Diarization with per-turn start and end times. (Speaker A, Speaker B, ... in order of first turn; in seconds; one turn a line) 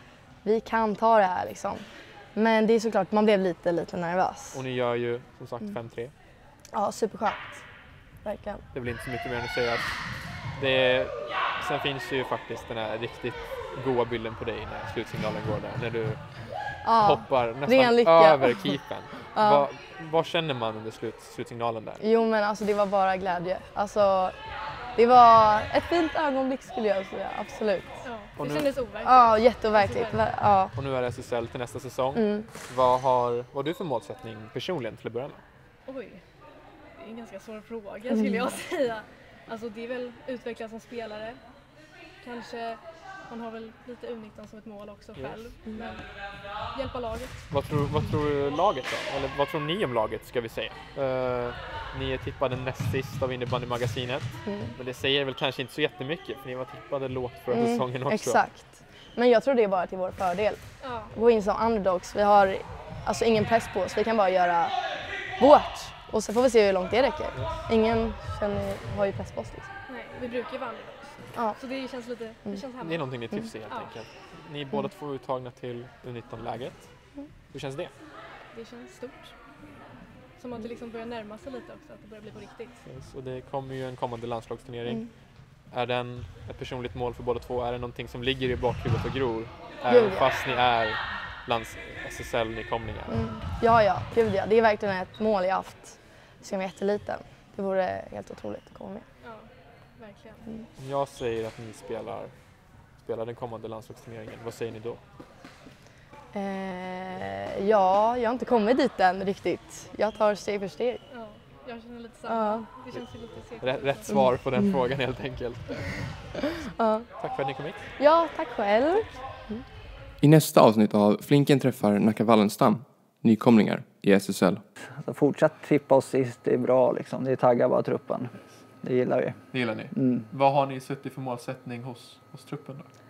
Speaker A: 0.4-4.6
Speaker B: 4.5-6.1
Speaker A: 6.7-7.6
Speaker A: 8.2-8.6
Speaker B: 8.7-16.2
Speaker B: 16.8-22.0
Speaker A: 16.8-18.7
Speaker A: 19.3-19.7
Speaker A: 22.0-24.3
Speaker A: 24.9-28.0
Speaker C: 28.0-30.2
Speaker B: 28.4-28.7
Speaker A: 29.0-30.7
Speaker B: 30.7-35.4
Speaker A: 32.1-32.5
Speaker C: 35.9-36.2
Speaker C: 37.0-41.4
Speaker C: 42.2-46.1
Speaker B: 45.1-45.8
Speaker C: 46.7-47.4
Speaker B: 47.5-58.4
Speaker A: 54.4-54.8
Speaker A: 57.5-64.7
Speaker C: 60.8-61.1
Speaker A: 65.4-69.7
Speaker C: 69.9-73.1
Speaker B: 72.8-77.9
Speaker C: 73.7-73.9
Speaker C: 78.5-79.3
Speaker C: 80.4-82.8
Speaker B: 82.8-85.1
Speaker B: 85.7-93.2
Speaker A: 89.9-90.3
Speaker A: 93.1-99.1
Speaker C: 99.2-100.5
Speaker B: 100.8-102.3
Speaker B: 103.0-105.0
Speaker A: 106.3-111.0
Speaker C: 111.1-114.1
Speaker A: 112.2-112.7
Speaker B: 112.9-116.1
Speaker A: 116.6-117.1
Speaker B: 117.2-117.9
Speaker A: 118.0-119.6
Speaker D: 120.2-124.6
Speaker E: 124.8-130.3
Speaker B: 129.5-132.9